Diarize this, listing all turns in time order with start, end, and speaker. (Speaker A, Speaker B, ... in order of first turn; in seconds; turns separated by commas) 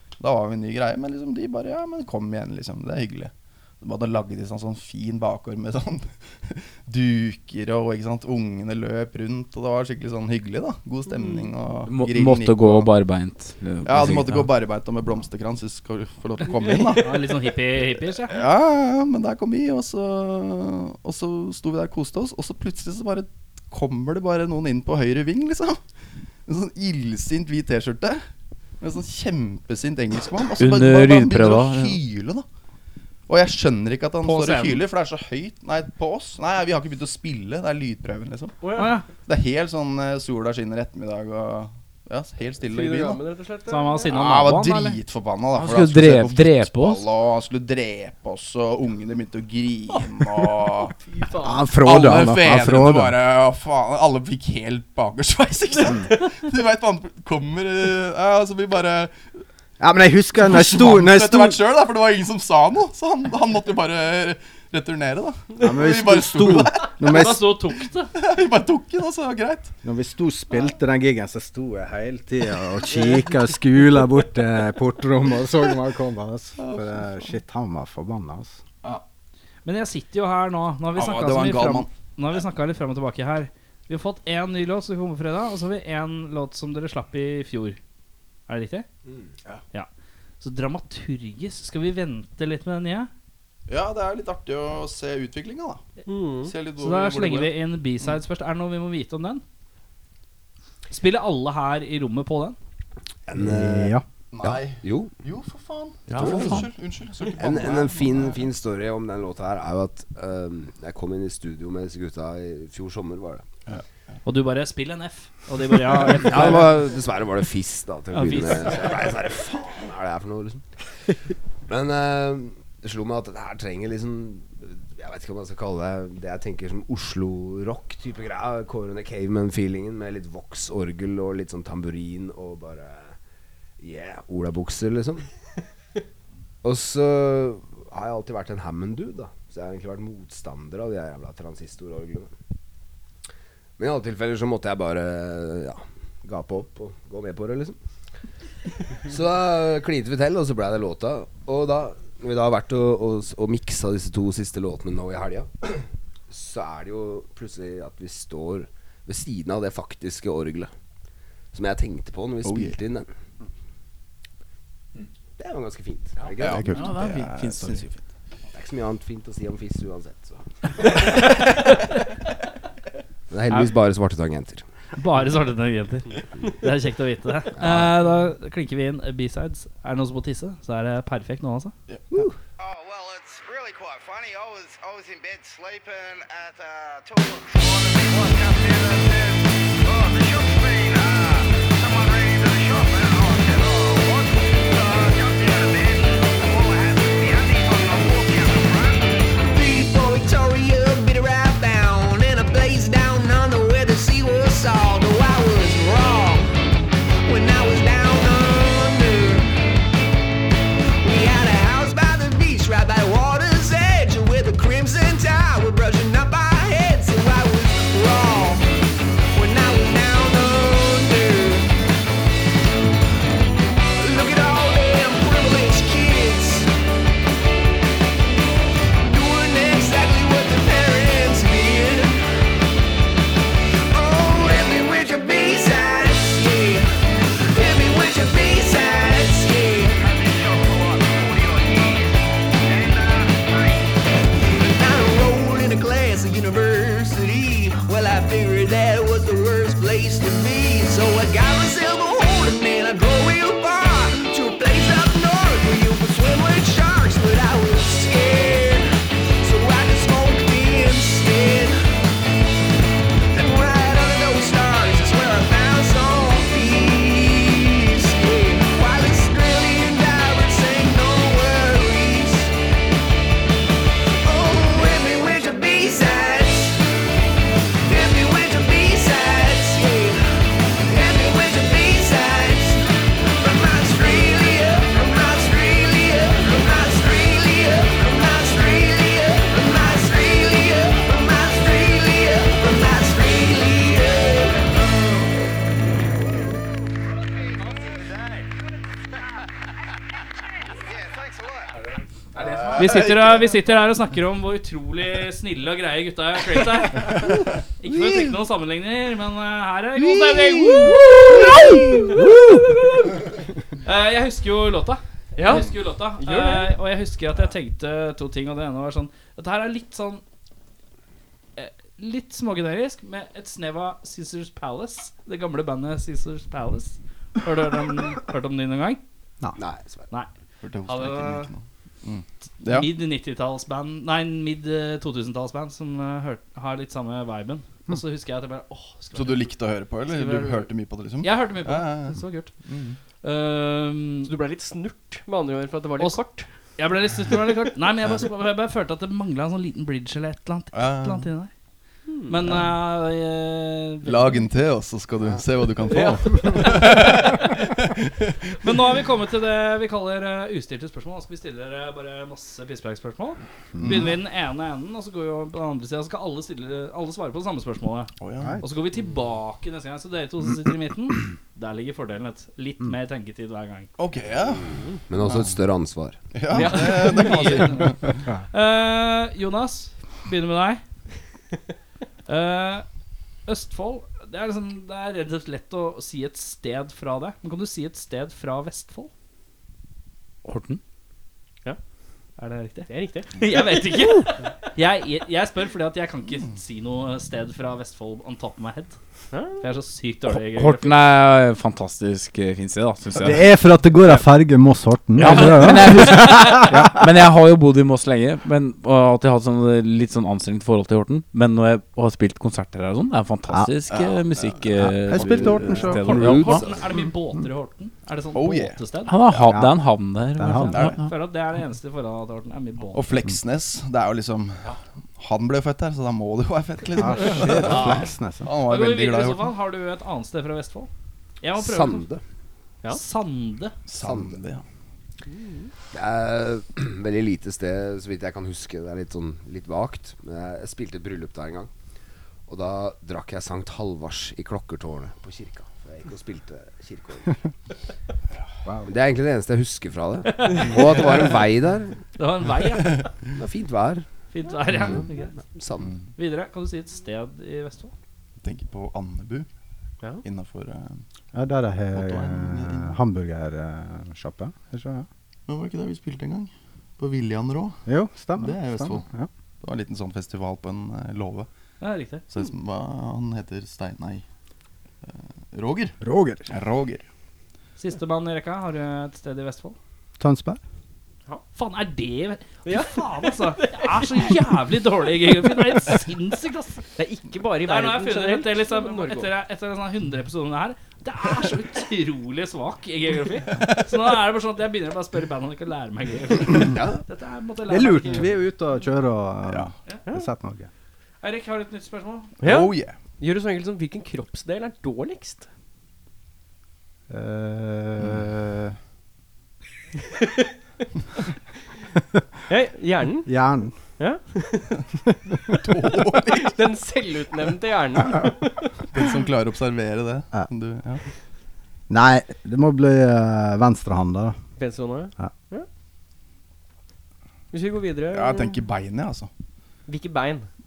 Speaker A: 0.2-12.9, Speaker B: 11.9-14.5, Speaker A: 13.8-17.3, Speaker C: 17.0-18.4, Speaker A: 18.3-25.8, Speaker A: 26.5-28.2, Speaker A: 28.8-32.5, Speaker B: 30.6-32.0, Speaker A: 33.3-38.7, Speaker C: 34.2-34.8, Speaker D: 38.6-38.9, Speaker C: 38.7-39.1, Speaker A: 39.2-43.2, Speaker D: 42.6-44.1, Speaker C: 43.7-45.0, Speaker A: 44.0-51.0, Speaker B: 45.5-47.0, Speaker D: 51.0-51.6, Speaker E: 51.4-53.2, Speaker A: 51.8-59.1, Speaker E: 59.8-61.6, Speaker A: 60.4-67.5, Speaker E: 65.6-67.5, Speaker C: 67.0-68.1, Speaker A: 68.1-69.7, Speaker E: 69.8-78.6, Speaker A: 76.6-77.0, Speaker C: 79.6-87.8, Speaker A: 80.9-81.9, Speaker C: 88.5-88.8, Speaker C: 90.4-93.1, Speaker A: 93.7-95.8, Speaker D: 96.0-96.5, Speaker A: 96.4-97.5, Speaker C: 96.8-99.4, Speaker C: 100.9-102.5, Speaker F: 103.3-105.1, Speaker E: 103.3-104.0, Speaker A: 104.3-108.4, Speaker B: 106.1-106.6, Speaker F: 106.2-106.6, Speaker F: 107.3-113.4, Speaker C: 114.2-116.8, Speaker F: 116.1-120.6, Speaker C: 118.1-119.0, Speaker F: 121.7-133.1, Speaker F: 133.8-135.2, Speaker F: 136.6-142.3, Speaker F: 143.8-147.8, Speaker F: 149.1-160.7, Speaker F: 161.5-163.1, Speaker A: 162.4-162.7, Speaker F: 165.4-166.7, Speaker A: 166.4-168.0, Speaker B: 166.6-167.8, Speaker F: 168.5-170.4, Speaker F: 173.3-174.6, Speaker C: 174.9-181.7, Speaker F: 177.6-177.9, Speaker G: 182.6-199.2, Speaker H: 199.4-206.6, Speaker H: 207.2-209.6, Speaker H: 211.0-218.7, Speaker H: 219.3-221.8, Speaker H: 224.0-226.7, Speaker H: 229.0-232.2, Speaker H: 233.9-236.9, Speaker H: 237.5-240.0, Speaker G: 240.0-244.0, Speaker H: 244.6-258.9, Speaker H: 259.4-261.8, Speaker H: 263.3-272.5, Speaker H: 274.2-276.8, Speaker H: 277.8-280.2, Speaker H: 280.8-295.2, Speaker G: 297.3-298.5, Speaker G: 300.8-301.8, Speaker A: 302.4-303.5, Speaker C: 302.7-313.2, Speaker A: 310.1-311.1, Speaker A: 311.6-312.1, Speaker C: 313.8-320.2, Speaker D: 315.4-316.7, Speaker C: 321.6-329.0, Speaker F: 329.6-330.1, Speaker A: 330.6-332.9, Speaker C: 330.9-331.5, Speaker C: 332.6-339.5, Speaker A: 339.1-343.0, Speaker C: 340.1-340.7, Speaker C: 341.2-342.5, Speaker C: 343.2-344.3, Speaker D: 344.2-346.5, Speaker C: 346.8-351.5, Speaker A: 350.7-351.3, Speaker D: 352.1-352.4, Speaker C: 352.3-354.4, Speaker A: 354.0-358.7, Speaker D: 355.9-356.2, Speaker C: 356.6-357.4, Speaker C: 358.6-373.9, Speaker A: 363.8-364.1, Speaker A: 368.2-368.6, Speaker A: 374.0-375.5, Speaker F: 374.8-376.2, Speaker A: 376.3-378.2, Speaker C: 376.5-380.8, Speaker D: 376.5-377.5, Speaker C: 382.3-382.8, Speaker C: 383.4-389.1, Speaker B: 390.4-390.8, Speaker C: 392.4-399.0, Speaker D: 392.9-393.4, Speaker D: 399.3-399.6, Speaker C: 399.6-400.9, Speaker B: 400.5-403.5, Speaker E: 403.1-407.1, Speaker B: 405.1-416.6, Speaker C: 405.3-405.6, Speaker A: 413.9-414.5, Speaker E: 414.8-416.3, Speaker F: 415.2-417.0, Speaker C: 416.0-419.1, Speaker A: 418.3-418.8, Speaker B: 419.1-421.1, Speaker E: 419.3-419.7, Speaker E: 420.3-420.9, Speaker C: 420.6-423.1, Speaker A: 420.7-421.0, Speaker A: 422.9-429.5, Speaker E: 426.9-428.5, Speaker C: 428.6-430.9, Speaker C: 431.4-432.1, Speaker F: 431.5-432.2, Speaker C: 432.9-433.7, Speaker A: 433.9-434.6, Speaker F: 433.9-434.4, Speaker D: 435.3-435.7, Speaker F: 435.9-441.7, Speaker F: 442.5-447.4, Speaker E: 448.6-448.9, Speaker F: 448.9-452.0, Speaker C: 450.4-451.2, Speaker C: 452.2-453.1, Speaker F: 453.3-454.1, Speaker C: 454.3-455.4, Speaker F: 454.8-455.9, Speaker C: 456.2-457.9, Speaker A: 458.4-459.5, Speaker A: 460.2-461.0, Speaker E: 461.3-465.1, Speaker A: 461.9-462.9, Speaker A: 465.5-467.8, Speaker E: 467.9-469.3, Speaker A: 468.4-469.1, Speaker A: 469.6-471.5, Speaker C: 471.8-472.2, Speaker A: 472.3-474.2, Speaker A: 475.5-475.9, Speaker E: 476.0-476.5, Speaker A: 476.5-477.0, Speaker C: 477.8-479.8, Speaker E: 480.2-480.6, Speaker C: 481.5-486.8, Speaker D: 482.6-484.4, Speaker D: 487.0-489.3, Speaker C: 487.6-498.3, Speaker F: 496.6-497.0, Speaker E: 497.7-500.7, Speaker C: 501.2-502.3, Speaker D: 502.4-505.5, Speaker A: 502.4-502.9, Speaker E: 507.1-508.8, Speaker D: 512.5-513.3, Speaker E: 513.2-513.7, Speaker D: 514.0-514.8, Speaker A: 515.5-516.6, Speaker D: 516.2-518.7, Speaker A: 518.9-521.0, Speaker E: 521.9-524.4, Speaker D: 524.6-525.7, Speaker D: 527.5-528.6, Speaker A: 528.1-529.3, Speaker D: 529.9-530.5